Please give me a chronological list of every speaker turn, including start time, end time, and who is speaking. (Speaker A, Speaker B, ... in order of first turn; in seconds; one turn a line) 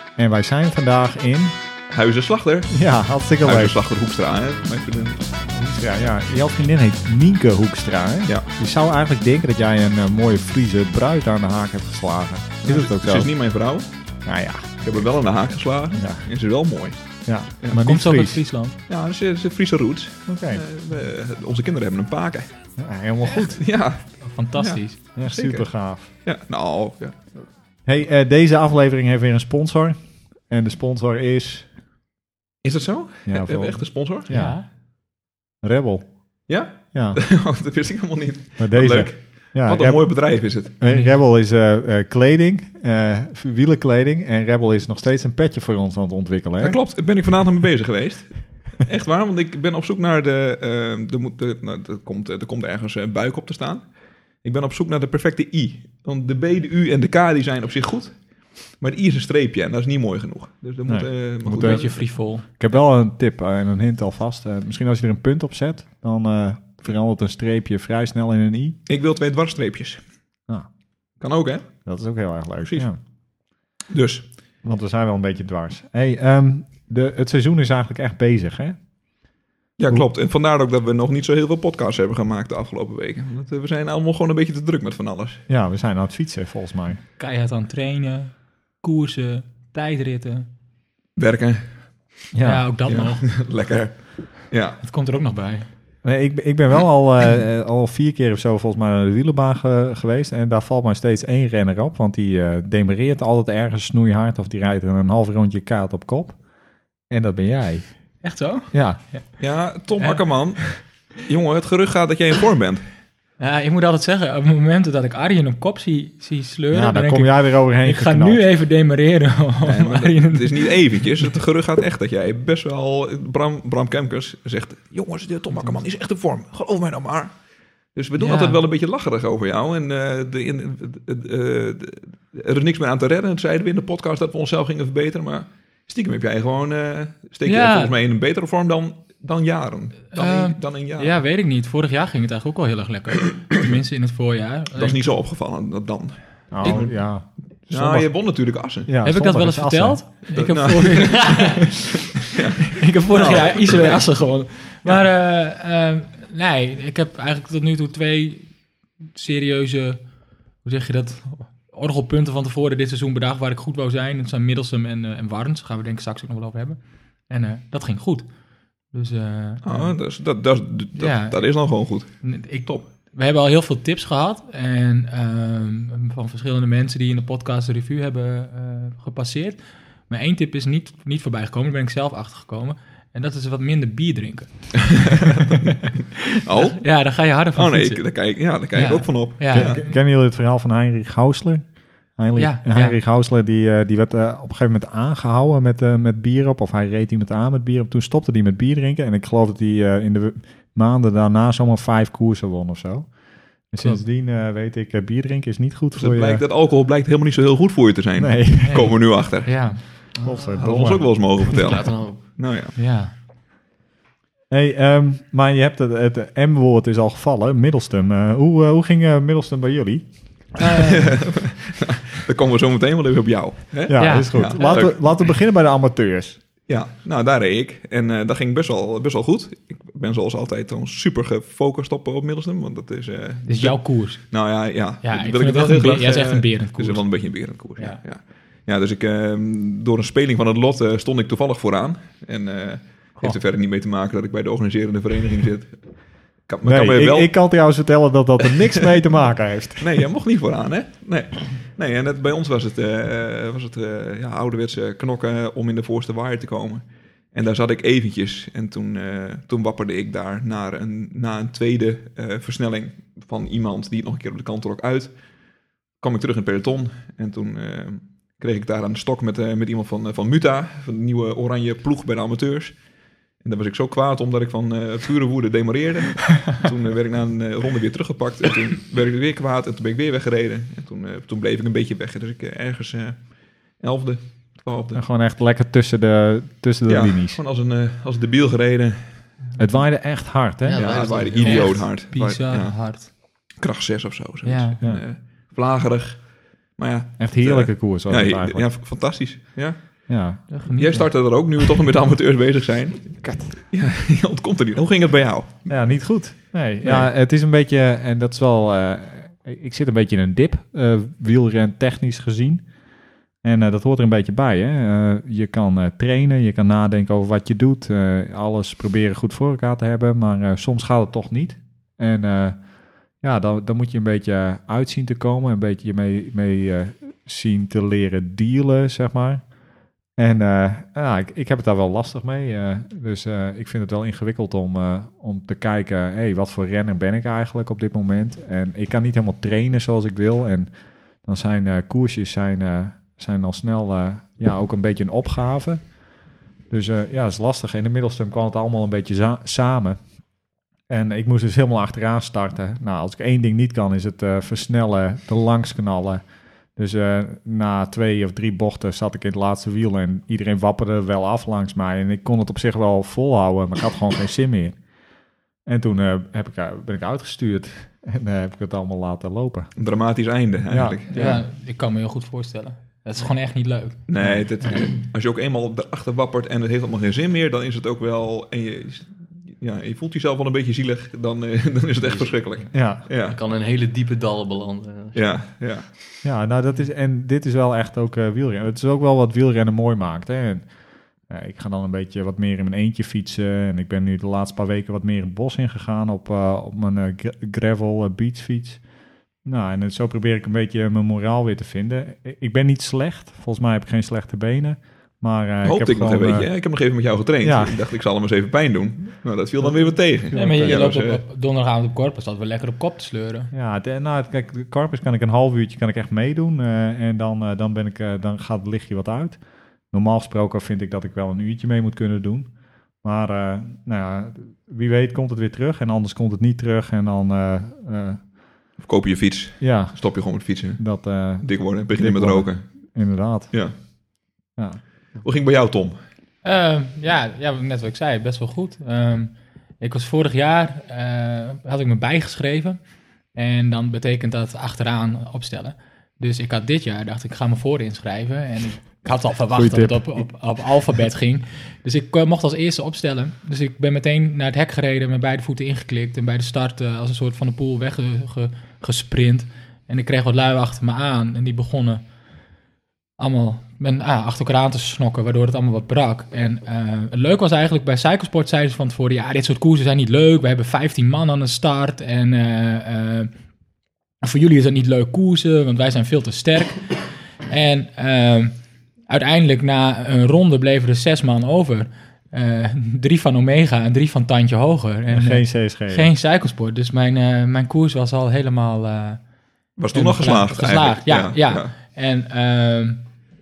Speaker A: 0.2-1.6
Speaker B: 1.9-2.8
Speaker A: 2.7-3.8
Speaker B: 3.4-5.2
Speaker A: 5.5-13.3
Speaker B: 12.6-13.9
Speaker A: 14.2-14.8
Speaker B: 14.8-17.0
Speaker A: 15.9-16.2
Speaker A: 17.2-18.4
Speaker C: 17.8-18.8
Speaker B: 18.9-22.5
Speaker A: 20.3-20.6
Speaker A: 22.8-23.7
Speaker B: 23.4-27.3
Speaker C: 24.2-25.0
Speaker A: 25.1-26.1
Speaker A: 27.8-31.7
Speaker B: 32.6-34.3
Speaker A: 33.2-34.6
Speaker C: 34.3-34.6
Speaker A: 35.6-37.2
Speaker B: 36.5-40.7
Speaker A: 38.6-46.8
Speaker C: 40.8-41.1
Speaker B: 46.6-62.0
Speaker A: 60.9-68.8
Speaker C: 61.5-62.4
Speaker B: 68.9-70.0
Speaker B: 71.2-71.9
Speaker A: 71.8-73.0
Speaker B: 72.6-73.1
Speaker B: 73.9-74.3
Speaker A: 74.6-78.8
Speaker B: 79.8-85.4
Speaker A: 85.5-87.0
Speaker C: 87.2-90.5
Speaker B: 91.2-91.7
Speaker A: 92.3-92.7
Speaker C: 92.4-93.3
Speaker B: 92.8-94.8
Speaker C: 94.8-95.7
Speaker A: 96.0-106.4
Speaker A: 107.1-109.0
Speaker C: 108.2-109.3
Speaker B: 109.4-112.8
Speaker C: 110.0-110.8
Speaker C: 113.4-120.8
Speaker A: 116.7-118.4
Speaker B: 119.6-127.3
Speaker B: 127.9-141.2
Speaker C: 128.2-128.6
Speaker C: 137.4-137.9
Speaker C: 140.1-145.1
Speaker B: 144.7-148.9
Speaker A: 146.5-150.2
Speaker C: 146.6-146.9
Speaker C: 149.0-151.8
Speaker B: 150.2-154.3
Speaker C: 152.7-170.0
Speaker B: 169.6-172.8
Speaker C: 171.0-185.4
Speaker B: 185.0-185.6
Speaker B: 186.4-189.8
Speaker C: 186.6-188.1
Speaker C: 188.7-189.9
Speaker A: 189.5-206.4
Speaker C: 192.3-192.9
Speaker B: 205.9-212.7
Speaker A: 208.2-208.9
Speaker C: 208.6-210.2
Speaker A: 210.2-211.4
Speaker D: 211.5-212.2
Speaker C: 212.8-213.1
Speaker A: 214.5-220.6
Speaker C: 220.6-221.0
Speaker B: 220.9-225.3
Speaker A: 223.9-226.4
Speaker C: 223.9-224.8
Speaker B: 226.7-247.3
Speaker C: 233.4-238.0
Speaker A: 246.6-250.0
Speaker B: 249.8-265.2
Speaker B: 266.0-272.8
Speaker B: 273.4-285.0
Speaker A: 284.9-287.4
Speaker B: 286.9-289.4
Speaker A: 289.6-291.8
Speaker D: 290.6-291.8
Speaker B: 290.7-305.7
Speaker C: 291.4-293.1
Speaker C: 294.4-294.8
Speaker A: 297.2-298.7
Speaker A: 300.1-300.4
Speaker C: 300.5-301.1
Speaker A: 305.7-312.6
Speaker A: 313.4-329.6
Speaker A: 330.1-346.0
Speaker A: 346.7-350.1
Speaker A: 350.9-364.9
Speaker A: 365.6-369.7
Speaker B: 369.8-371.4
Speaker A: 370.7-371.3
Speaker C: 371.1-374.4
Speaker B: 374.1-383.4
Speaker D: 382.0-385.4
Speaker A: 382.7-383.0
Speaker B: 385.1-385.9
Speaker A: 386.2-398.9
Speaker A: 399.4-406.6
Speaker B: 405.6-411.2
Speaker A: 407.4-407.8
Speaker A: 409.7-410.9
Speaker C: 410.3-413.5
Speaker A: 413.5-428.3
Speaker B: 428.8-432.9
Speaker A: 429.6-433.9
Speaker B: 433.5-433.8
Speaker B: 435.2-436.0
Speaker C: 436.4-462.0
Speaker A: 449.5-450.3
Speaker C: 463.2-473.3
Speaker C: 474.2-489.2
Speaker A: 485.1-486.1
Speaker B: 489.8-491.7
Speaker C: 489.9-493.1